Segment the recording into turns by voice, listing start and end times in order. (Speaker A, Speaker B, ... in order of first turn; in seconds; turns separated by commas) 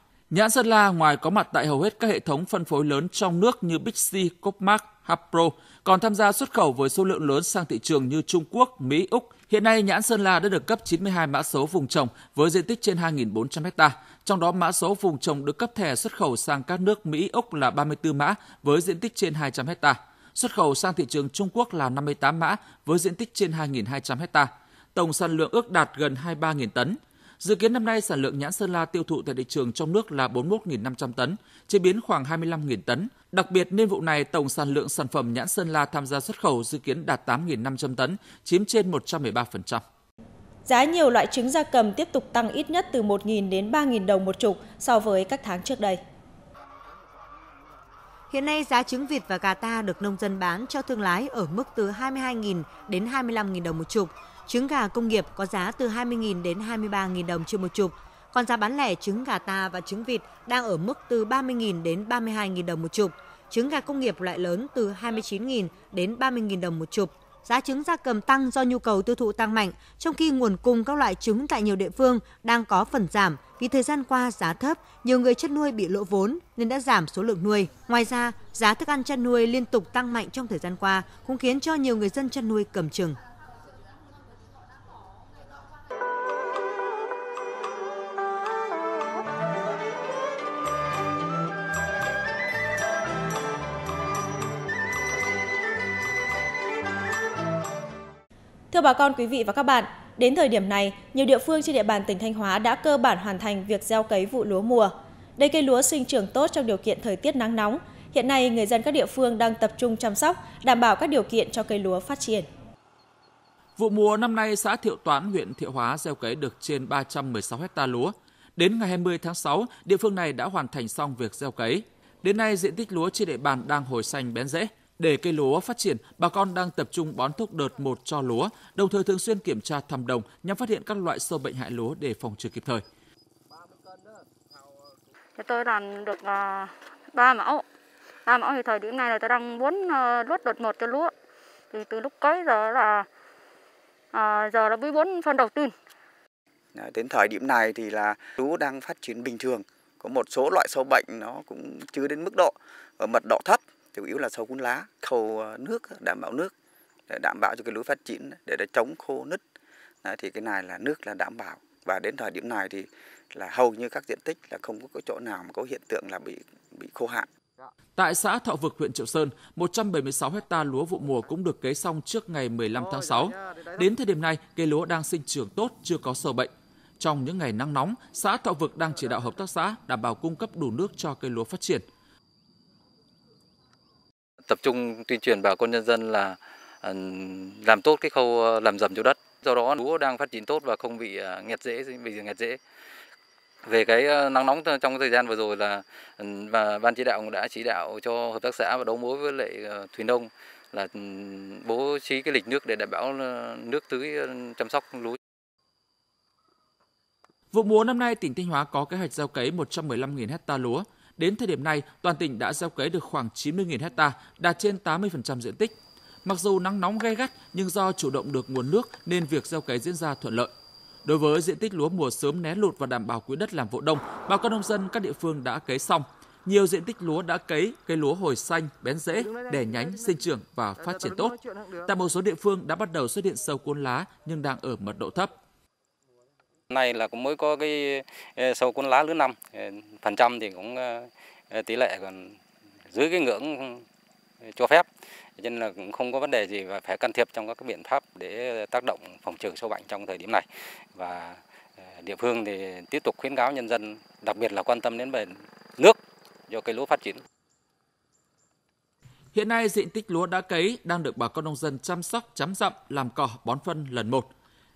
Speaker A: 0.3-39.8, Speaker B: 40.7-46.0, Speaker C: 48.3-83.2, Speaker B: 98.7-112.5, Speaker A: 113.8-132.8, Speaker D: 135.4-137.6, Speaker D: 138.2-141.1, Speaker D: 141.7-143.1, Speaker D: 144.1-145.7, Speaker E: 146.8-156.5, Speaker E: 157.1-159.4, Speaker E: 160.0-167.3, Speaker A: 167.9-181.8, Speaker F: 184.4-192.6, Speaker F: 193.6-205.2, Speaker A: 207.5-215.7, Speaker A: 216.2-220.5, Speaker A: 221.1-235.3, Speaker F: 236.7-243.8, Speaker F: 244.4-257.2, Speaker A: 259.3-264.3